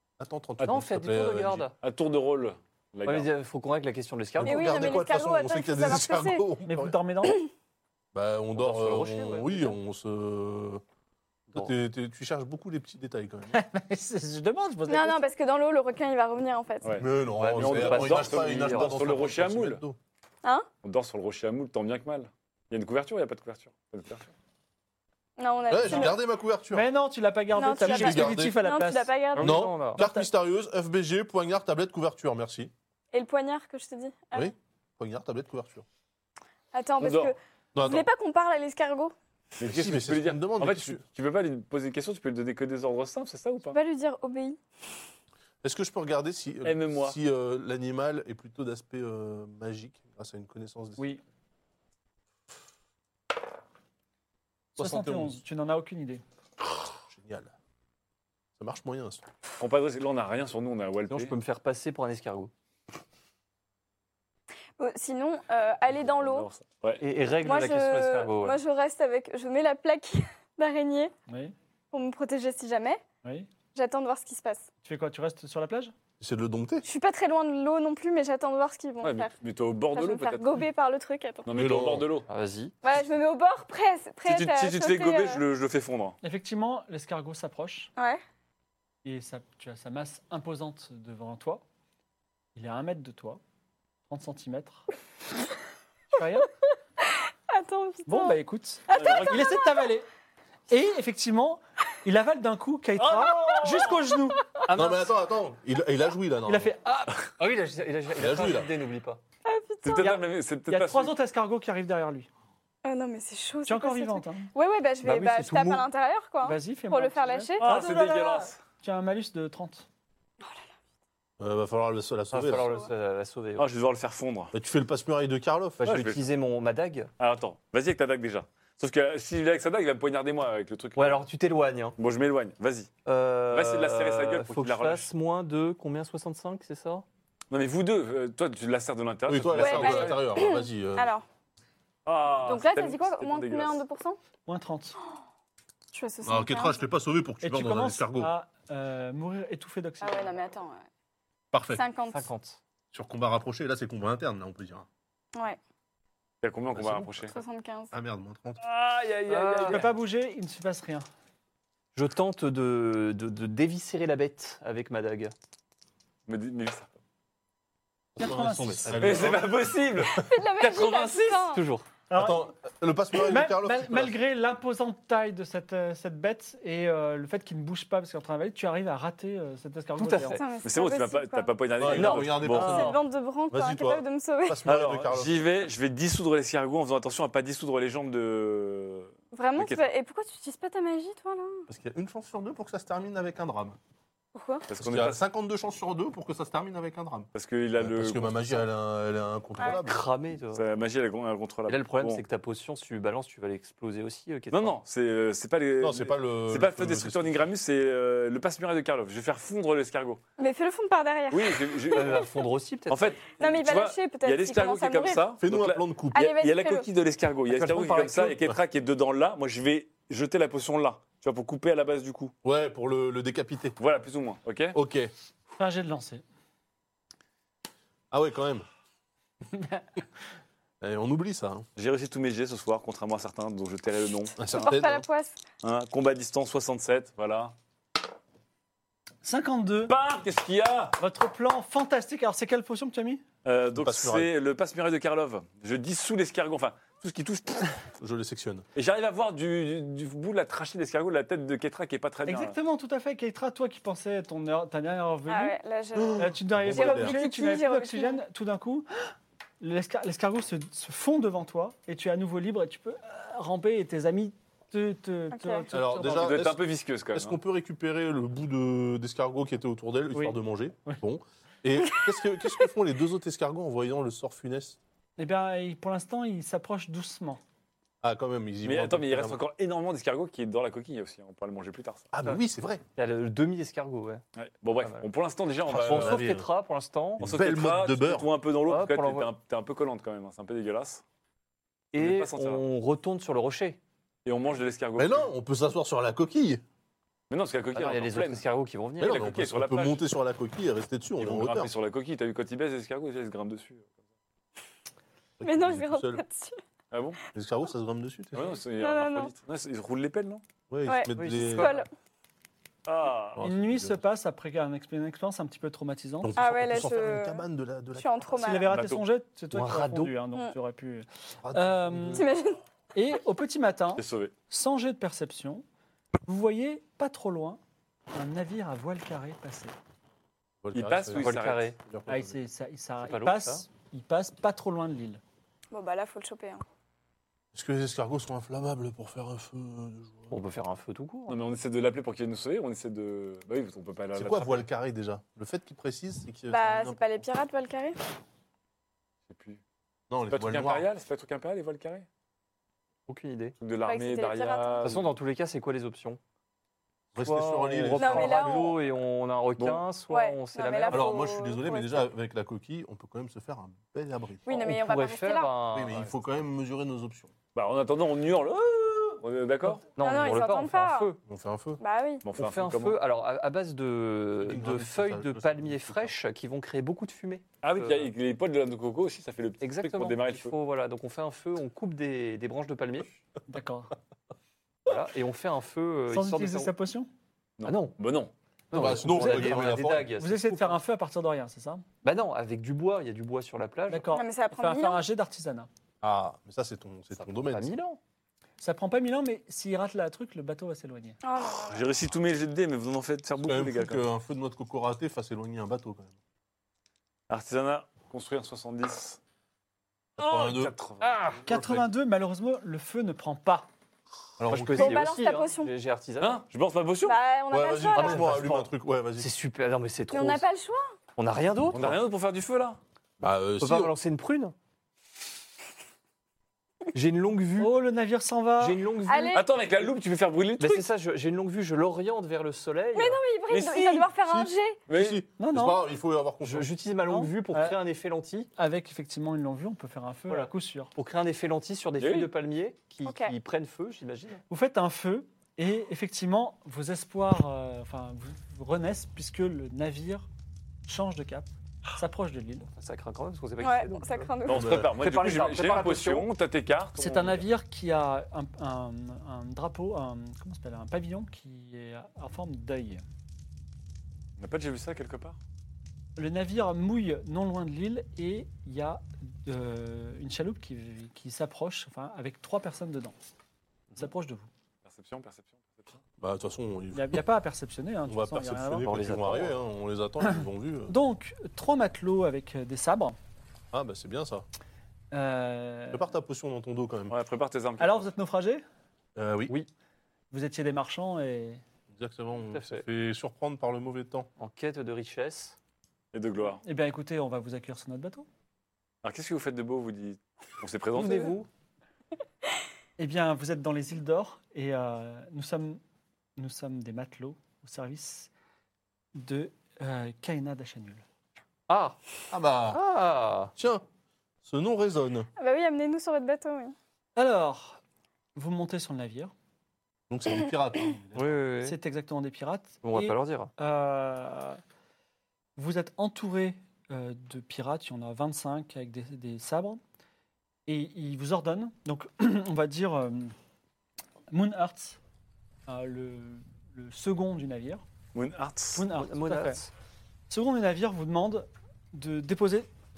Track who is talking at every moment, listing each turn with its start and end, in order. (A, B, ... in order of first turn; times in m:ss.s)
0:00.2-0:01.7 A
0:00.6-0:01.8 B
0:01.8-0:03.3 C
0:03.0-0:05.0 B
0:04.4-0:06.9 A
0:04.4-0:06.4 D
0:06.7-0:07.4 E
0:08.1-0:10.8 A
0:08.6-0:09.7 B
0:11.5-0:13.6 A
0:13.5-0:15.3 E
0:14.9-0:17.0 D
0:16.8-0:19.8 C
0:17.0-0:20.0 A
0:17.4-0:19.1 B
0:20.8-0:24.3 C
0:25.4-0:26.2 D
0:25.7-0:26.9 A
0:25.8-0:26.1 E
0:26.7-0:29.2 E
0:27.6-0:29.7 D
0:27.8-0:28.6 A
0:29.4-0:30.0 B
0:29.4-0:32.7 A
0:30.0-0:30.3 E
0:33.1-0:34.5 D
0:34.3-0:35.8 A
0:36.7-0:39.1 D
0:37.0-0:37.3 C
0:37.8-0:38.1 A
0:39.6-0:43.8 C
0:39.6-0:41.0 A
0:43.7-0:44.6 D
0:45.6-0:51.0 A
0:46.6-0:47.2 C
0:54.8-0:55.4 A
0:54.8-0:56.2 E
0:57.1-0:57.5 A
0:58.6-0:59.2 A
0:59.6-1:01.3 C
1:01.1-1:02.5 B
1:04.8-1:06.5 D
1:06.0-1:07.0 C
1:07.0-1:08.6 B
1:07.4-1:11.1 D
1:11.3-1:11.5 E
1:11.9-1:13.0 D
1:13.2-1:13.5 E
1:13.7-1:14.7 D
1:14.8-1:15.9 E
1:16.2-1:16.8 A
1:16.8-1:19.3 D
1:19.0-1:20.6 C
1:19.9-1:21.5 D
1:21.4-1:22.3 C
1:21.5-1:22.1 A
1:22.3-1:22.8 B
1:22.8-1:25.4 D
1:24.2-1:26.2 C
1:26.2-1:27.9 E
1:28.0-1:28.2 D
1:29.0-1:31.6 E
1:32.6-1:33.4 E
1:34.1-1:34.8 E
1:36.1-1:36.5 E
1:37.5-1:38.4 D
1:38.1-1:40.1 E
1:38.9-1:39.6 D
1:38.9-1:39.5 C
1:40.7-1:44.4 E
1:43.0-1:44.1 C
1:44.7-1:45.1 B
1:44.7-1:46.7 A
1:46.5-1:47.3 E
1:47.4-1:49.2 B
1:48.2-1:48.7 A
1:49.4-1:50.1 D
1:49.8-1:51.1 C
1:50.0-1:52.3 E
1:52.8-1:57.7 D
1:53.7-1:54.5 E
1:55.0-1:55.8 B
1:56.4-1:59.9 E
1:57.6-1:58.6 C
2:01.4-2:02.8 A
2:02.3-2:03.7 B
2:03.6-2:04.5 C
2:04.5-2:05.9 A
2:05.8-2:07.1 B
2:05.8-2:06.2 C
2:07.2-2:11.2 C
2:11.0-2:12.0 B
2:12.0-2:12.9 C
2:13.0-2:17.0 B
2:13.5-2:15.1 C
2:17.5-2:20.2 C
2:19.3-2:21.1 A
2:19.6-2:21.3 D
2:22.1-2:23.8 C
2:22.4-2:24.2 D
2:24.5-2:25.0 E
2:25.9-2:26.8 D
2:26.2-2:28.3 A
2:27.4-2:30.4 E
2:30.0-2:30.8 D
2:31.5-2:31.8 A
2:31.7-2:32.3 D
2:32.1-2:32.6 B
2:32.9-2:34.9 A
2:36.4-2:37.4 C
2:36.7-2:37.1 A
2:37.3-2:37.9 D
2:37.9-2:38.6 A
2:38.6-2:39.9 C
2:39.3-2:39.9 B
2:39.7-2:41.0 E
2:42.0-2:45.3 B
2:46.3-2:46.9 C
2:48.2-2:49.0 E
2:48.2-2:50.3 A
2:48.9-2:49.3 B
2:49.0-2:51.4 C
2:50.2-2:51.6 D
2:50.7-2:51.9 B
2:52.1-2:52.4 E
2:52.1-2:54.2 A
2:53.2-3:00.4 E
3:00.0-3:00.4 B
3:00.3-3:01.5 D
3:00.6-3:03.0 C
3:01.8-3:03.0 A
3:01.9-3:03.0 B
3:02.6-3:04.6 D
3:03.5-3:05.4 A
3:04.6-3:09.8 C
3:09.3-3:11.7 D
3:11.7-3:13.8 A
3:14.4-3:14.7 D
3:14.7-3:15.2 C
3:14.8-3:20.0 A
3:17.3-3:18.7 C
3:19.7-3:20.6 B
3:20.5-3:22.2 C
3:21.7-3:24.8 B
3:24.5-3:30.2 C
3:25.8-3:27.5 A
3:30.4-3:32.2 D
3:31.3-3:32.3 C
3:31.9-3:33.2 B
3:32.9-3:42.3 C
3:33.4-3:35.2 D
3:35.4-3:36.2 A
3:36.1-3:36.9 D
3:37.5-3:38.5 B
3:42.4-3:43.8 A
3:43.8-3:44.8 C
3:44.7-3:45.1 A
3:45.6-3:46.2 E
3:48.1-3:48.7 A
3:50.8-3:51.7 A
3:51.8-3:54.4 C
3:54.4-3:55.0 A
3:54.5-3:55.4 D
3:55.6-3:57.5 C
3:59.2-3:59.9 E
3:59.9-4:01.0 C
4:01.0-4:03.2 E
4:03.4-4:07.8 C
4:03.8-4:04.3 A
4:08.0-4:08.6 A
4:08.8-4:12.6 C
4:12.2-4:15.6 E
4:15.3-4:18.2 D
4:16.0-4:17.2 A
4:16.2-4:26.4 E
4:25.3-4:25.6 D
4:25.7-4:26.6 A
4:26.1-4:27.4 C
4:27.1-4:34.8 A
4:30.1-4:31.0 E
4:35.2-4:37.4 E
4:38.0-4:39.4 A
4:38.6-4:42.1 C
4:42.1-4:42.8 A
4:43.0-4:44.2 B
4:44.4-4:46.2 C
4:45.7-4:46.5 A
4:45.8-4:47.2 B
4:47.2-4:48.3 A
4:47.2-4:51.0 C
4:48.7-4:49.3 B
4:51.9-4:53.8 B
4:52.0-4:52.6 C
4:54.2-4:55.3 C
4:55.0-4:56.6 A
4:57.3-4:58.4 C
4:57.7-4:59.2 B
4:59.0-5:01.7 A
4:59.0-5:00.0 C
5:01.2-5:03.9 C
5:05.4-5:06.2 A
5:05.4-5:06.6 D
5:06.9-5:07.2 C
5:07.4-5:08.6 A
5:08.3-5:10.4 C
5:08.8-5:09.3 D
5:10.7-5:11.8 A
5:10.9-5:11.9 D
5:11.1-5:11.8 B
5:12.9-5:13.4 C
5:13.4-5:14.0 A
5:13.4-5:16.4 E
5:16.2-5:18.4 A
5:16.4-5:17.4 D
5:18.0-5:18.7 D
5:18.4-5:22.2 E
5:18.7-5:19.0 C
5:19.5-5:20.2 B
5:21.4-5:22.3 A
5:22.2-5:22.6 D
5:23.0-5:25.6 E
5:24.0-5:24.3 C
5:26.3-5:27.6 E
5:28.1-5:29.8 E
5:30.6-5:32.4 A
5:30.7-5:31.7 C
5:31.2-5:31.8 B
5:32.1-5:35.2 E
5:33.0-5:33.6 B
5:35.7-5:36.6 D
5:37.5-5:40.4 A
5:40.3-5:41.4 B
5:41.3-5:44.7 C
5:44.1-5:47.0 A
5:46.5-5:48.0 D
5:49.3-5:49.6 C
5:50.1-5:50.8 A
5:50.3-5:52.1 C
5:53.1-5:53.6 B
5:53.6-5:55.1 C
5:53.9-5:55.0 D
5:54.8-5:56.2 B
5:57.2-5:58.5 A
5:57.2-6:01.3 B
5:58.0-5:58.8 D
5:59.6-5:59.8 C
6:00.1-6:02.0 D
6:00.9-6:04.4 A
6:04.5-6:05.6 D
6:04.5-6:06.0 B
6:05.7-6:07.3 A
6:07.6-6:09.9 C
6:10.0-6:11.2 B
6:10.0-6:11.1 D
6:11.3-6:11.8 A
6:11.8-6:12.3 D
6:12.2-6:13.0 C
6:12.4-6:18.1 B
6:14.4-6:16.1 A
6:17.6-6:20.5 C
6:19.6-6:23.1 B
6:23.5-6:23.9 E
6:24.9-6:26.7 B
6:26.1-6:27.1 E
6:27.6-6:28.3 C
6:27.6-6:28.0 B
6:28.7-6:30.8 B
6:28.7-6:30.1 A
6:30.2-6:31.8 E
6:32.0-6:34.1 B
6:33.9-6:35.7 E
6:34.1-6:35.0 D
6:36.0-6:37.8 A
6:37.2-6:38.0 B
6:38.6-6:41.2 E
6:41.2-6:41.8 D
6:41.4-6:44.1 C
6:43.4-6:46.2 A
6:47.3-6:49.2 C
6:50.2-6:50.8 A
6:50.2-6:51.4 C
6:51.0-6:51.5 B
6:51.5-6:53.7 E
6:51.5-6:51.8 A
6:54.4-6:55.1 A
6:54.5-6:56.4 B
6:54.8-6:55.7 D
6:56.2-6:57.2 C
6:57.0-6:58.4 D
6:57.5-6:59.3 A
6:57.9-7:00.4 B
7:00.1-7:01.0 D
7:01.2-7:02.0 B
7:01.7-7:02.8 C
7:03.2-7:03.9 A
7:03.6-7:04.6 B
7:06.9-7:07.8 B
7:07.6-7:08.8 E
7:08.6-7:09.4 B
7:09.1-7:09.6 D
7:09.3-7:10.9 C
7:10.6-7:13.2 B
7:13.0-7:14.8 D
7:13.5-7:14.1 C
7:14.3-7:16.7 A
7:14.9-7:15.2 C
7:15.4-7:15.8 E
7:16.4-7:18.5 B
7:17.1-7:17.8 E
7:18.6-7:20.9 E
7:20.3-7:24.4 B
7:22.0-7:22.3 C
7:23.0-7:23.3 D
7:24.5-7:30.3 E
7:30.9-7:32.7 E
7:32.7-7:36.3 B
7:33.6-7:34.7 D
7:34.5-7:37.4 C
7:34.5-7:34.9 A
7:37.0-7:43.0 E
7:44.4-7:45.4 C
7:46.2-7:53.2 E
7:54.0-7:54.5 E
7:54.8-7:56.0 C
7:56.2-7:57.2 A
7:56.9-7:58.9 E
7:58.1-8:01.0 A
7:58.8-7:59.6 B
8:00.9-8:03.2 E
8:03.7-8:04.5 A
8:05.1-8:06.1 E
8:05.9-8:07.2 A
8:07.1-8:08.1 C
8:07.8-8:08.6 E
8:09.2-8:09.5 A
8:10.3-8:11.6 E
8:11.9-8:14.3 A
8:12.5-8:12.8 B
8:14.4-8:15.6 B
8:16.1-8:16.6 C
8:16.6-8:18.3 E
8:19.0-8:21.4 C
8:20.9-8:21.5 B
8:23.0-8:25.8 E
8:26.4-8:28.3 E
8:29.2-8:31.0 E
8:31.7-8:32.0 B
8:32.3-8:32.8 A
8:32.7-8:33.5 B
8:33.6-8:33.8 A
8:34.4-8:35.3 A
8:35.4-8:36.8 D
8:37.2-8:37.8 E
8:38.4-8:39.3 E
8:40.1-8:41.4 A
8:41.2-8:41.8 B
8:41.6-8:44.6 E
8:42.8-8:43.5 B
8:45.6-8:49.8 E
8:50.7-8:53.4 E
8:54.3-8:55.0 E
8:55.7-8:57.8 E
8:58.1-8:58.8 C
8:58.8-8:59.6 E
8:58.9-8:59.7 B
9:00.3-9:02.7 E